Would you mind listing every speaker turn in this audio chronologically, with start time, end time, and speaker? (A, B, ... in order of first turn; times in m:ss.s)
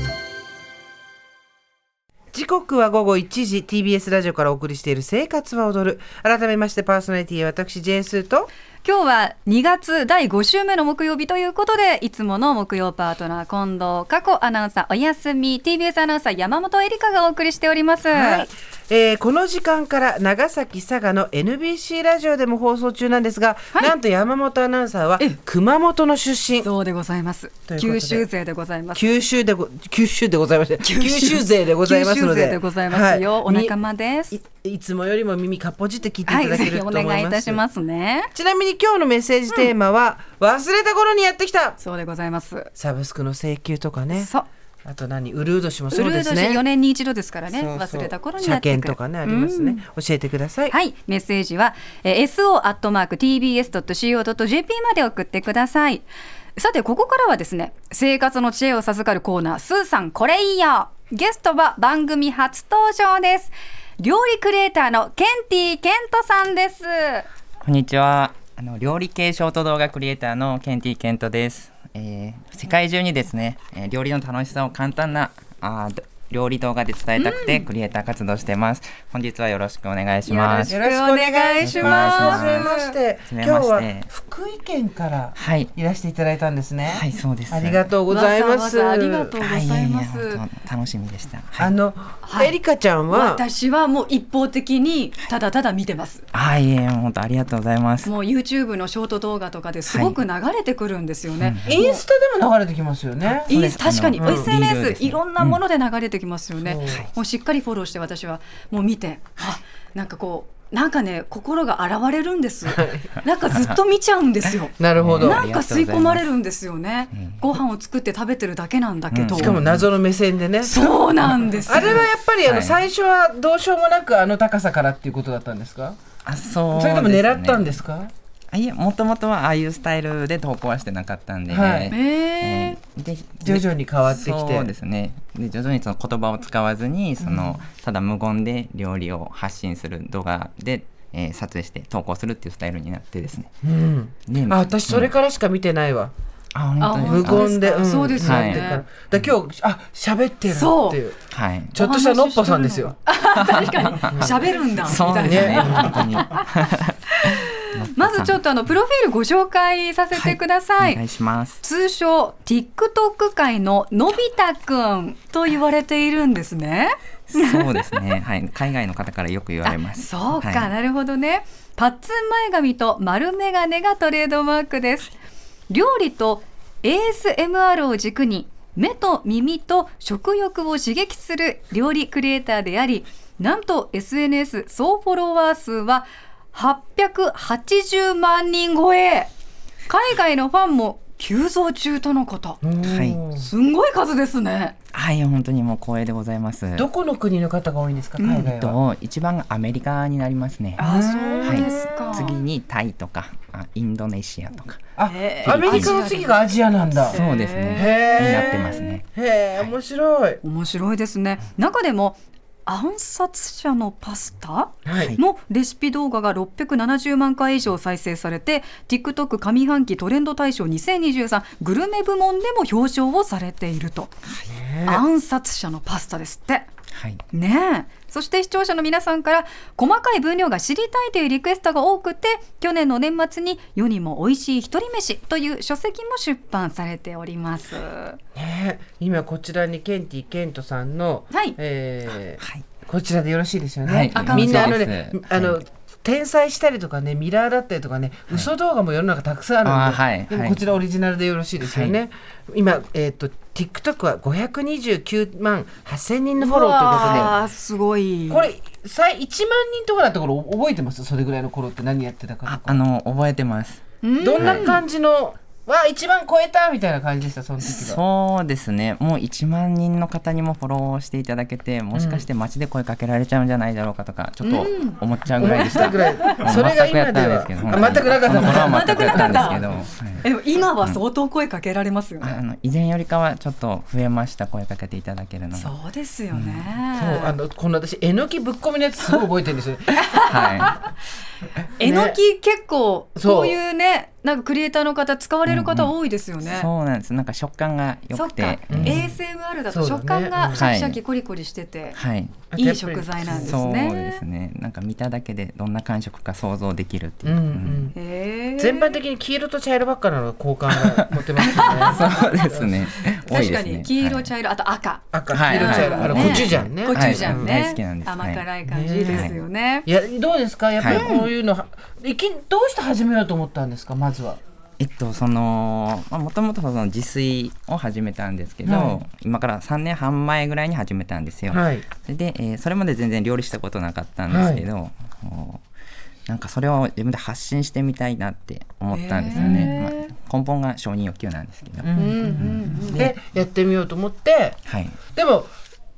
0:02.3-0:08.5 A
0:08.8-0:18.5 B
0:18.1-0:26.7 A
0:26.6-0:29.0 B
0:27.7-0:28.2 A
0:28.9-0:33.7 A
0:30.8-0:34.4 B
0:34.3-0:37.6 A
0:36.3-0:38.3 B
0:38.3-0:41.8 A
0:41.8-0:42.7 B
0:42.8-0:44.3 A
0:44.1-0:44.5 B
0:44.8-0:46.6 A
0:45.9-0:49.8 B
0:47.5-0:50.7 A
0:50.7-1:07.2 B
1:07.6-1:20.7 C
1:17.2-1:17.6 B
1:20.2-1:23.0 B
1:20.7-1:29.4 A
1:21.6-1:22.7 C
1:23.3-1:24.1 C
1:25.4-1:25.7 C
1:26.8-1:27.9 C
1:28.1-1:30.4 B
1:29.4-1:31.7 C
1:31.6-1:33.4 A
1:32.2-1:32.5 B
1:33.1-1:36.2 B
1:36.3-1:38.1 C
1:38.0-1:42.0 B
1:39.9-1:40.2 C
1:41.4-1:41.8 C
1:41.6-1:43.5 A
1:43.4-1:45.6 C
1:43.5-1:59.5 B
1:44.2-1:44.5 A
1:46.6-1:47.0 A
1:52.7-1:53.1 A
1:53.5-1:53.8 C
1:54.8-1:55.4 A
1:55.0-1:56.3 C
1:57.1-1:57.5 C
1:59.1-1:59.8 C
1:59.4-2:01.0 A
2:00.6-2:02.0 B
2:01.6-2:06.0 A
2:01.7-2:02.8 C
2:06.2-2:07.8 C
2:06.7-2:08.1 A
2:08.5-2:23.5 C
2:11.5-2:11.9 A
2:11.9-2:12.8 B
2:13.4-2:14.7 A
2:17.2-2:17.6 A
2:23.6-2:26.1 A
2:24.3-2:25.1 C
2:26.5-2:27.5 C
2:26.8-2:28.8 B
2:27.0-2:31.2 A
2:28.2-2:29.3 C
2:30.5-2:31.0 B
2:31.3-2:31.8 C
2:31.7-2:33.0 A
2:31.8-2:36.5 B
2:33.3-2:38.4 C
2:34.1-2:34.4 A
2:35.2-2:36.0 A
2:37.2-2:41.0 B
2:40.1-2:41.6 C
2:41.6-2:48.1 B
2:47.3-2:50.7 C
2:49.6-2:55.1 B
2:55.7-3:09.3 B
3:09.9-3:12.6 B
3:12.6-3:13.5 A
3:12.8-3:13.2 C
3:13.4-3:14.7 B
3:14.9-3:16.9 C
3:16.8-3:18.8 A
3:18.2-3:20.9 C
3:20.8-3:22.4 B
3:20.8-3:22.3 A
3:21.4-3:24.9 C
3:25.0-3:27.2 A
3:25.0-3:29.0 B
3:25.4-3:26.1 C
3:27.1-3:29.0 C
3:27.7-3:30.4 A
3:30.4-3:44.1 B
3:34.8-3:35.1 A
3:34.9-3:35.2 C
3:44.5-3:45.0 A
3:44.8-3:46.6 B
3:46.9-3:47.2 C
3:47.3-3:58.2 B
3:58.3-4:17.3 A
4:01.3-4:01.6 B
4:02.4-4:02.7 C
4:03.8-4:05.6 C
4:04.1-4:04.8 B
4:09.6-4:10.6 C
4:11.6-4:11.9 C
4:16.4-4:18.5 B
4:17.0-4:17.3 C
4:18.3-4:22.8 A
4:22.4-4:23.8 C
4:24.0-4:24.8 B
4:24.2-4:28.0 A
4:24.4-4:24.8 C
4:27.6-4:40.2 C
4:31.9-4:32.2 A
4:34.4-4:36.5 B
4:35.4-4:39.6 A
4:38.2-4:42.4 B
4:42.2-4:45.7 C
4:45.5-4:47.3 B
4:46.3-4:46.7 C
4:46.9-4:50.0 A
4:50.0-4:50.9 B
4:50.1-4:50.8 C
4:51.8-4:52.2 A
4:51.8-4:56.7 B
4:53.2-4:53.6 A
4:55.4-4:59.1 C
4:58.1-5:02.0 B
4:58.7-4:59.2 A
4:59.7-5:00.6 A
5:00.5-5:01.0 C
5:01.9-5:02.4 C
5:02.5-5:03.6 A
5:02.5-5:04.2 B
5:03.3-5:07.9 C
5:07.2-5:08.0 A
5:07.9-5:08.9 B
5:08.6-5:12.8 A
5:11.4-5:12.2 B
5:11.5-5:14.3 C
5:13.2-5:19.9 B
5:15.1-5:17.6 A
5:15.3-5:18.4 C
5:18.7-5:19.3 A
5:19.1-5:19.4 C
5:19.8-5:24.4 A
5:20.8-5:21.1 C
5:20.8-5:21.3 B
5:24.8-5:35.6 C
5:28.6-5:29.0 A
5:31.5-5:31.8 A
5:34.3-5:34.6 A
5:36.3-5:43.1 C
5:38.9-5:40.1 B
5:39.4-5:39.8 A
5:41.8-5:44.6 A
5:42.0-5:43.1 B
5:44.6-5:45.0 C
5:45.1-5:45.5 A